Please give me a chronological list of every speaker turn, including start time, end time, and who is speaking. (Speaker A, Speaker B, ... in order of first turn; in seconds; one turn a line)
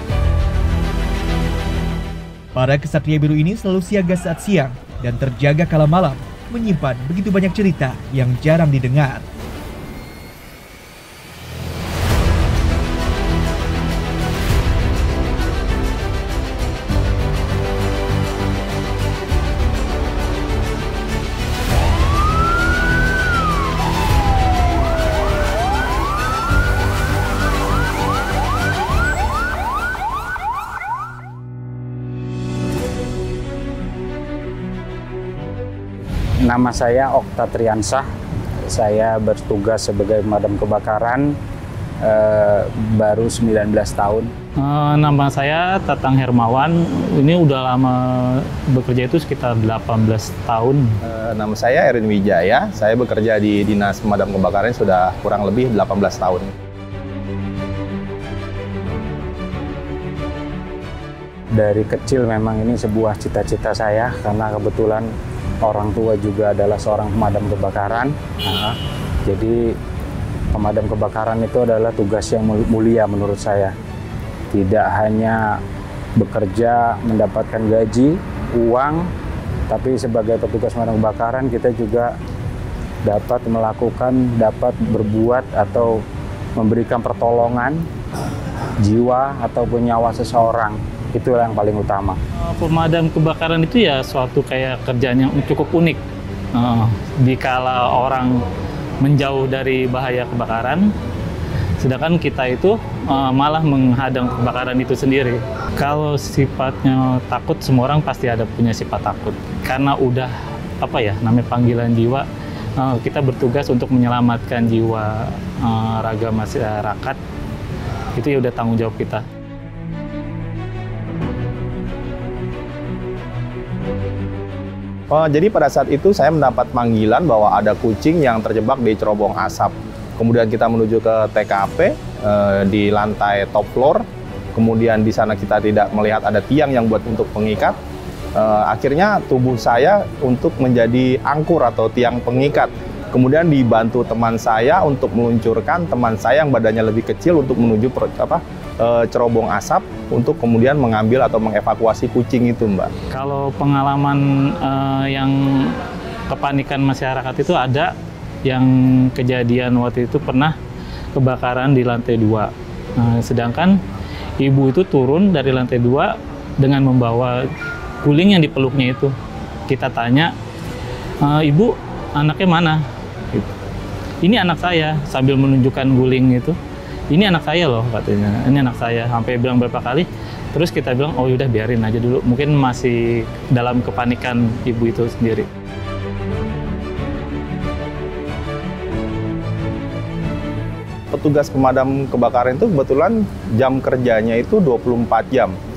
Speaker A: 2.5-9.2
Speaker B: 36.4-38.1
Speaker B: 38.7-41.4
Speaker B: 42.0-44.3
Speaker C: 44.6-50.9
Speaker D: 51.0-56.5
Speaker B: 61.5-69.8
Speaker B: 70.5-73.7
Speaker B: 74.5-75.6
Speaker B: 76.2-79.1
Speaker B: 79.7-82.1
Speaker B: 83.0-86.0
Speaker B: 86.5-87.8
Speaker B: 88.8-92.2
Speaker C: 92.5-96.0
Speaker C: 96.5-98.4
Speaker C: 99.0-100.9
Speaker C: 101.8-112.3
Speaker C: 112.8-117.2
Speaker C: 118.2-119.2
Speaker D: 125.1-137.8
Speaker D: 138.3-152.9
Speaker C: 153.1-157.9
Speaker C: 158.4-160.6
Speaker C: 161.1-163.8
Speaker C: 164.4-167.4
Speaker C: 168.0-169.1
Speaker C: 169.7-170.3
Speaker C: 171.2-173.5
Speaker C: 174.2-176.6
Speaker C: 177.1-185.5
Speaker D: 191.1-195.5